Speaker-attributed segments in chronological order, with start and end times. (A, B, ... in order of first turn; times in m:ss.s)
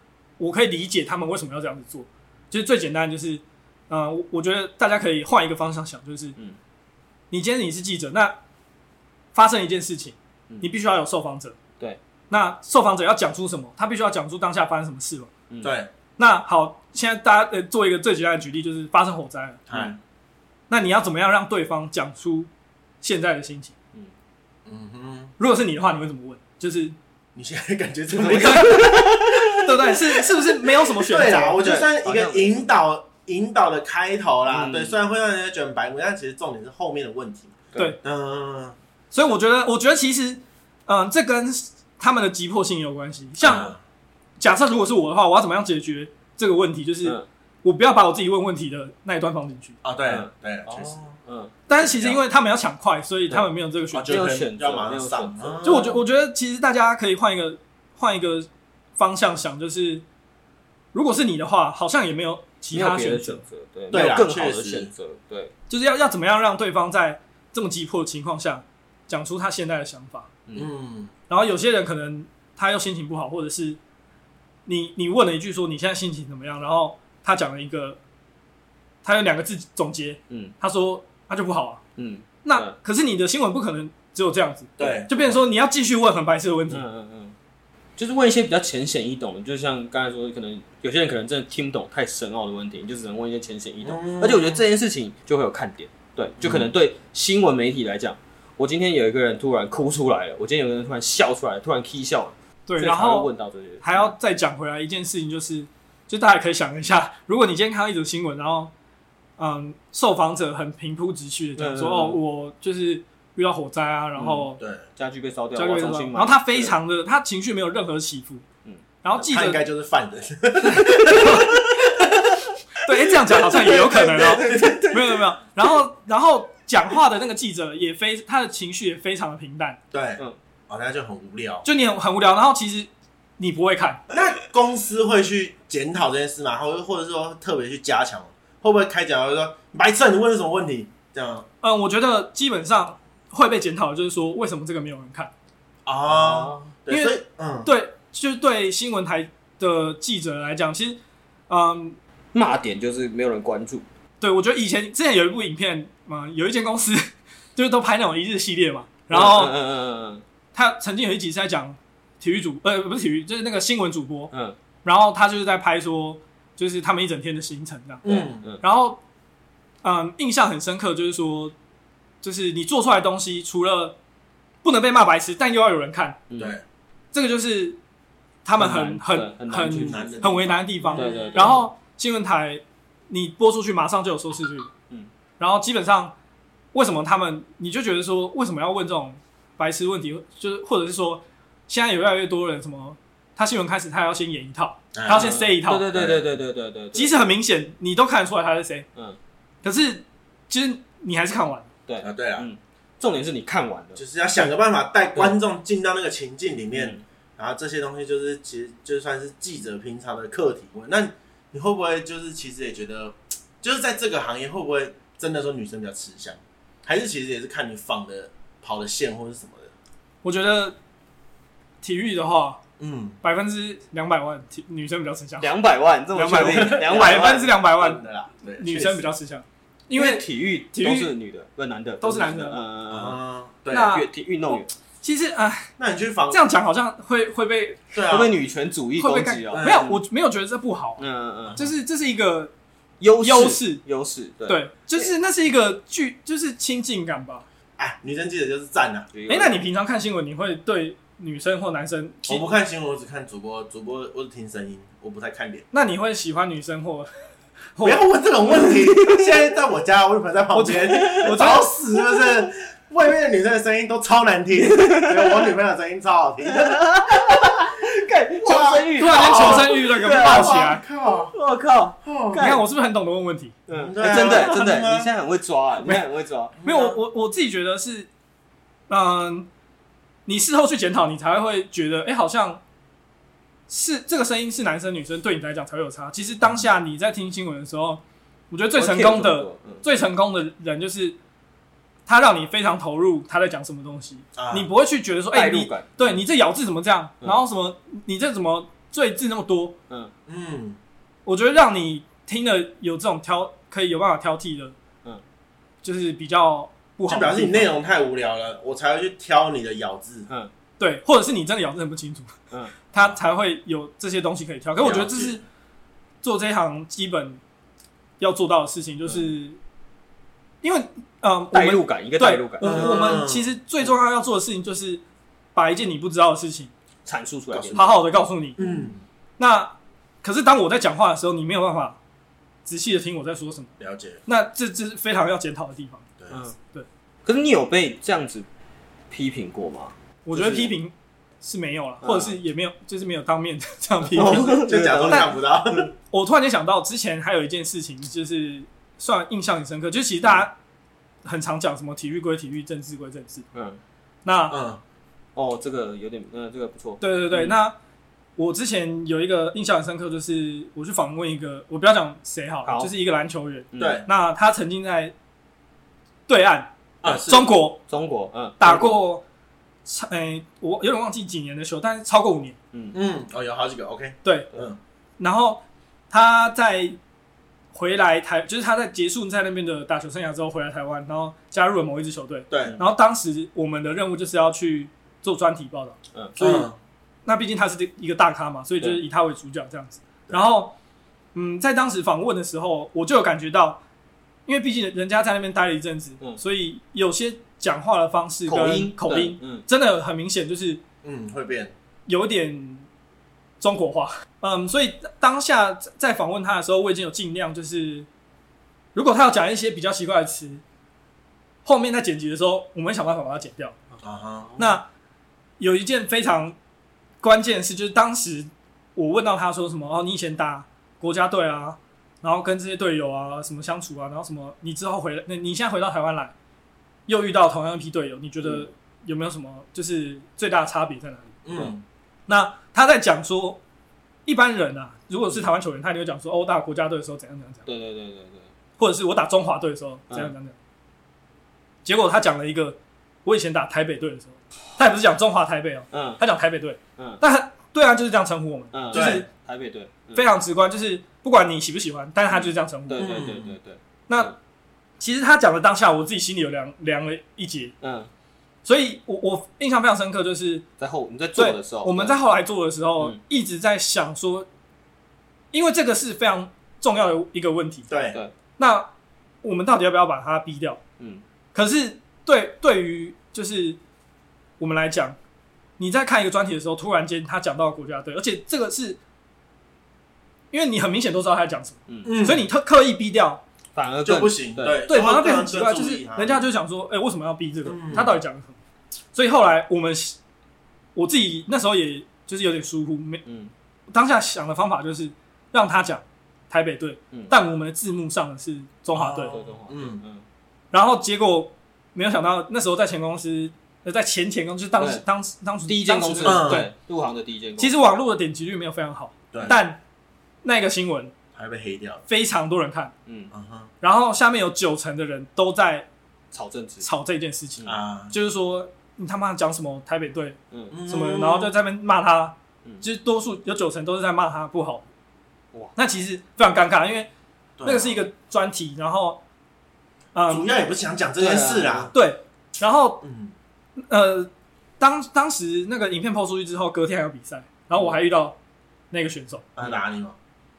0:00.4-0:06.3 A
0:07.3-0:08.4 A
0:09.3-0:11.6 A
0:12.3-0:15.3 A
0:15.5-0:15.8 B
0:15.6-0:15.9 C
0:16.2-0:19.6 A
0:19.7-0:20.0 C
0:20.7-0:22.5 A
0:23.0-0:23.7 A
0:24.6-0:25.3 C
0:25.4-0:27.0 A
0:27.4-0:38.8 C
0:28.1-0:31.6 A
0:28.3-0:29.0 B
0:31.6-0:32.6 B
0:34.5-0:35.0 B
0:39.1-0:43.7 A
0:43.4-0:43.8 C
0:44.4-0:49.8 A
0:49.8-0:51.2 C
0:50.0-0:51.6 B
0:51.7-0:54.1 A
0:51.8-0:52.2 C
0:53.9-0:56.0 C
0:54.1-0:55.9 B
0:55.6-1:00.0 A
1:00.9-1:03.4 A
1:02.7-1:05.5 B
1:03.9-1:04.9 C
1:05.7-1:10.3 A
1:10.5-1:11.1 C
1:11.3-1:13.8 A
1:14.6-1:18.0 A
1:19.0-1:21.8 A
1:20.3-1:20.5 B
1:22.0-1:22.7 B
1:22.4-1:26.8 A
1:24.8-1:25.3 C
1:26.7-1:27.3 B
1:28.0-1:44.1 B
1:33.8-1:34.6 C
1:36.4-1:36.7 C
1:42.7-1:43.3 A
1:43.8-1:48.7 A
1:49.4-1:54.6 A
1:51.6-1:52.2 B
1:54.2-1:56.8 B
1:54.6-1:54.8 C
1:55.5-1:58.4 A
1:59.0-1:59.6 A
1:59.3-2:02.2 C
2:01.0-2:01.3 B
2:01.0-2:01.6 A
2:02.8-2:09.8 A
2:03.2-2:05.0 C
2:04.4-2:05.0 B
2:09.9-2:11.6 C
2:11.6-2:14.0 A
2:14.1-2:21.5 C
2:21.6-2:25.3 A
2:25.8-2:27.7 C
2:26.1-2:26.7 B
2:26.9-2:32.0 A
2:32.3-2:33.8 B
2:34.2-2:39.6 A
2:39.1-2:40.2 B
2:40.5-2:44.3 A
2:44.8-2:49.0 A
2:48.0-2:48.4 C
2:48.1-2:48.6 B
2:49.8-2:51.5 A
2:52.2-2:54.0 A
2:54.6-2:56.2 A
2:56.3-2:56.5 B
2:56.4-2:56.6 C
2:57.1-2:57.8 A
2:58.4-3:04.7 A
2:58.6-3:00.2 B
2:59.7-3:01.6 C
3:00.9-3:01.6 B
3:05.4-3:06.1 A
3:06.7-3:15.9 A
3:14.9-3:15.3 C
3:15.1-3:17.2 B
3:15.9-3:16.2 C
3:16.9-3:18.8 A
3:19.6-3:21.7 A
3:21.9-3:24.0 B
3:22.0-3:22.5 C
3:24.0-3:39.7 C
3:26.7-3:27.0 B
3:40.2-3:40.8 A
3:41.8-3:42.6 A
3:42.8-3:43.2 C
3:43.2-3:45.5 A
3:45.4-3:47.5 B
3:46.1-3:48.0 A
3:46.3-3:49.1 C
3:48.5-3:51.1 A
3:49.9-3:53.2 B
3:52.0-3:52.6 A
3:52.9-3:54.0 C
3:53.7-3:54.1 A
3:53.8-3:54.7 B
3:55.0-3:55.7 A
3:55.8-3:56.4 C
3:56.3-3:57.9 A
3:57.9-3:58.4 C
3:58.1-3:59.9 B
3:59.0-4:02.5 A
3:59.5-3:59.9 C
4:01.0-4:01.6 B
4:03.0-4:05.1 B
4:03.2-4:03.8 A
4:04.5-4:07.4 A
4:07.8-4:09.1 C
4:09.1-4:09.6 B
4:09.3-4:12.5 A
4:12.3-4:15.6 C
4:15.7-4:17.1 A
4:17.8-4:18.1 A
4:17.8-4:27.6 C
4:19.0-4:19.3 B
4:20.5-4:21.7 A
4:20.9-4:21.3 B
4:24.5-4:25.5 B
4:26.4-4:32.6 B
4:28.4-4:31.3 C
4:29.0-4:30.8 A
4:32.0-4:32.6 C
4:32.3-4:34.9 A
4:33.7-4:36.5 B
4:33.7-4:35.1 C
4:36.6-4:37.0 C
4:36.6-4:38.1 A
4:38.9-4:39.5 A
4:40.2-4:42.6 A
4:43.7-4:51.2 A
4:48.7-4:49.8 B
4:52.1-4:59.8 A
4:54.4-4:54.7 C
4:55.3-4:56.2 B
5:00.3-5:00.8 C
5:01.2-5:04.7 A
5:05.8-5:07.7 A
5:07.1-5:10.3 C
5:10.8-5:12.3 A
5:12.9-5:15.4 A
5:14.8-5:15.4 C
5:16.2-5:17.4 A
5:18.2-5:19.6 A
5:20.6-5:25.0 A
5:21.5-5:23.2 B
5:22.6-5:23.5 C
5:25.5-5:26.7 A
5:27.0-5:27.8 B
5:27.5-5:27.9 C
5:27.7-5:28.6 A
5:28.6-5:29.0 C
5:29.4-5:32.0 A
5:32.6-5:33.7 A
5:33.8-5:34.2 C
5:34.2-5:36.0 A
5:36.2-5:36.4 C
5:37.2-5:38.4 B
5:39.1-5:40.7 B
5:40.2-5:45.3 A
5:42.0-5:42.3 B
5:44.1-5:45.4 B
5:44.2-5:45.9 C
5:46.1-5:50.5 A
5:51.2-5:53.4 A
5:54.2-5:54.6 A
5:54.5-5:54.8 C
5:55.4-5:57.5 B
5:57.0-5:57.7 A
5:58.4-6:05.1 A
6:02.6-6:02.9 B
6:03.7-6:04.0 B
6:03.8-6:04.0 C
6:06.3-6:06.7 A
6:07.0-6:07.5 C
6:07.2-6:07.8 A
6:07.9-6:09.0 B
6:08.6-6:09.2 A
6:09.8-6:12.6 A
6:12.9-6:14.8 C
6:14.2-6:14.5 A
6:15.2-6:17.0 A
6:17.7-6:26.7 A
6:22.5-6:22.8 C
6:26.1-6:26.5 B
6:26.4-6:26.8 C
6:27.2-6:30.7 A
6:31.3-6:33.8 A
6:34.5-6:40.8 A
6:38.5-6:39.6 B
6:41.0-6:41.7 C
6:42.1-6:42.9 A
6:43.6-6:48.1 A
6:48.9-6:50.6 A
6:51.6-6:53.8 A
6:54.0-6:54.8 C
6:54.6-6:54.8 A
6:55.6-6:56.6 A
6:57.2-7:06.3 A
7:07.1-7:11.4 A
7:11.4-7:11.8 C
7:12.3-7:13.6 A
7:14.2-7:17.6 A
7:17.6-7:18.5 B
7:18.8-7:20.5 A
7:21.8-7:29.3 A
7:25.9-7:26.2 B
7:28.7-7:30.2 B
7:28.9-7:29.2 C
7:30.1-7:33.2 A
7:32.3-7:34.3 B
7:33.0-7:33.5 C
7:34.1-7:34.3 A
7:35.0-7:37.7 A
7:37.8-7:38.1 B
7:38.6-7:40.6 A
7:40.8-7:42.2 B
7:41.3-7:44.5 A
7:45.5-7:47.9 A
7:47.9-7:48.2 C
7:48.6-7:48.9 A
7:49.4-7:50.8 A
7:51.5-7:53.8 A
7:54.6-7:55.2 A
7:55.8-7:59.0 A
8:00.5-8:03.4 A
8:01.9-8:02.1 B
8:02.0-8:02.5 C
8:03.7-8:04.8 B
8:04.0-8:06.4 C
8:04.9-8:08.6 A
8:07.6-8:08.2 C
8:09.1-8:10.2 A
8:10.9-8:13.2 A
8:13.2-8:13.5 B
8:13.9-8:19.4 A
8:18.9-8:20.0 C
8:19.3-8:20.2 B
8:20.7-8:26.7 A
8:24.8-8:25.0 B
8:25.7-8:27.8 B
8:26.2-8:26.7 C
8:27.6-8:29.8 A
8:30.4-8:31.1 A
8:31.3-8:32.0 C
8:32.1-8:32.9 A
8:33.0-8:33.3 B
8:33.3-8:33.7 C
8:33.8-8:35.9 A
8:36.3-8:36.9 B
8:36.8-8:44.8 A
8:37.6-8:38.1 C
8:40.5-8:40.8 B
8:40.7-8:41.5 C
8:45.8-8:47.1 A
8:47.6-8:48.0 C
8:47.6-8:49.2 A
8:50.1-8:50.4 A
8:50.3-8:51.9 C
8:51.2-8:51.9 B
8:51.9-8:53.0 A
8:53.0-8:53.3 C
8:53.8-8:58.4 A
8:58.9-8:59.4 A
8:59.6-9:00.2 C